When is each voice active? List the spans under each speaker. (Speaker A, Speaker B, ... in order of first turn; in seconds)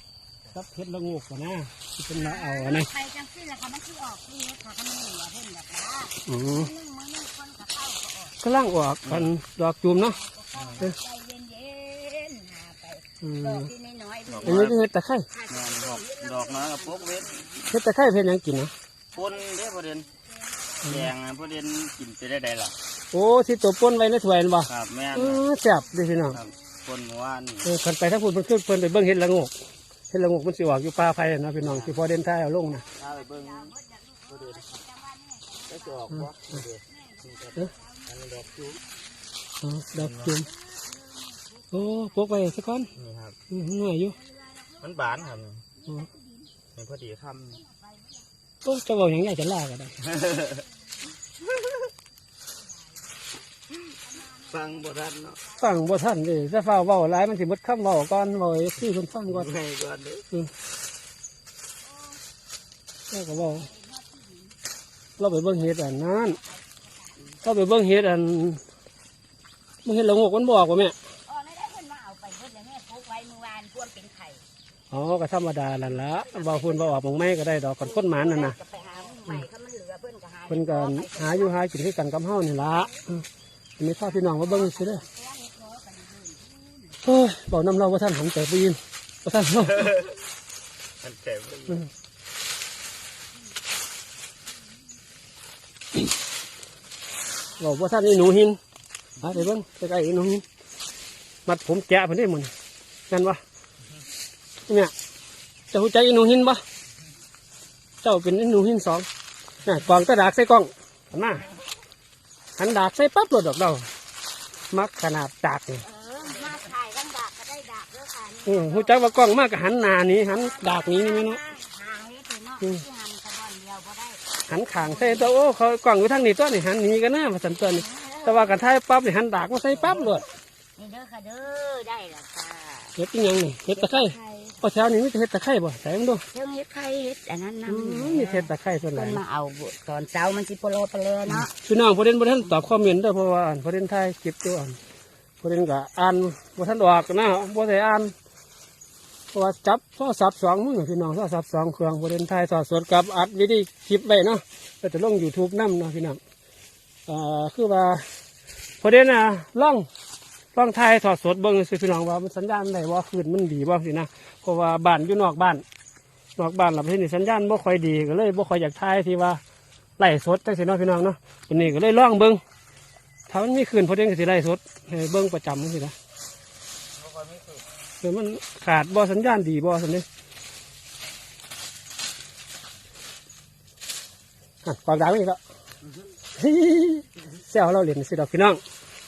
Speaker A: 0.5-2.9, 6.3-6.7, 8.4-10.2, 13.2-13.7, 14.4-15.3, 17.7-18.7, 23.1-26.4, 27.6-29.5, 30.1-32.8, 39.6-40.5, 41.7-42.9, 43.5-44.2, 48.6-50.0, 55.6-59.5, 63.1-63.7, 65.2-66.4, 67.4-68.6, 69.8-71.0, 74.9-78.6, 80.5-83.2, 83.8-85.0, 87.0-89.9, 97.6-98.6, 99.2-100.4, 101.5-102.5, 103.1-103.4, 105.7-106.6, 108.0-109.1, 109.6-111.5, 112.6-113.9, 114.7-115.8, 118.5-121.4, 124.5-130.2, 133.0-136.2, 137.7-139.2, 141.3-144.8, 145.4-148.1, 149.3-156.2, 157.1-158.1, 158.8-159.9, 160.6-165.6, 166.4-169.4, 170.0-172.4, 173.3-175.9, 178.0-180.1, 184.7-185.4, 186.4-188.6
Speaker B: 2.1-8.4, 10.1-14.7, 15.3-17.7, 19.1-21.1, 26.0-26.5, 32.6-36.2, 36.9-39.5, 40.3-42.9, 44.1-46.5, 47.5-48.3, 50.5-50.9, 52.6-53.2, 53.9-55.8, 61.9-62.2, 63.3-64.6, 65.2-67.2, 71.3-74.4, 75.8-77.0, 77.8-81.6, 82.7-83.0, 84.0-87.1, 115.8-119.0, 120.3-125.3, 127.6-128.6, 129.8-133.0, 133.7-134.6, 136.3-141.5
Speaker C: 9.1-9.3, 10.6-10.9, 14.3-14.8, 15.5-17.6, 19.1-20.1, 20.9-22.7, 24.7-25.4, 26.3-27.7, 31.6-32.0, 33.0-33.7, 34.3-34.7, 35.7-38.8, 40.0-40.4, 43.0-43.4, 44.8-45.6, 46.8-47.6, 50.1-50.5, 54.5-55.4, 59.3-60.2, 89.8-90.1, 91.0-91.8, 177.0-177.7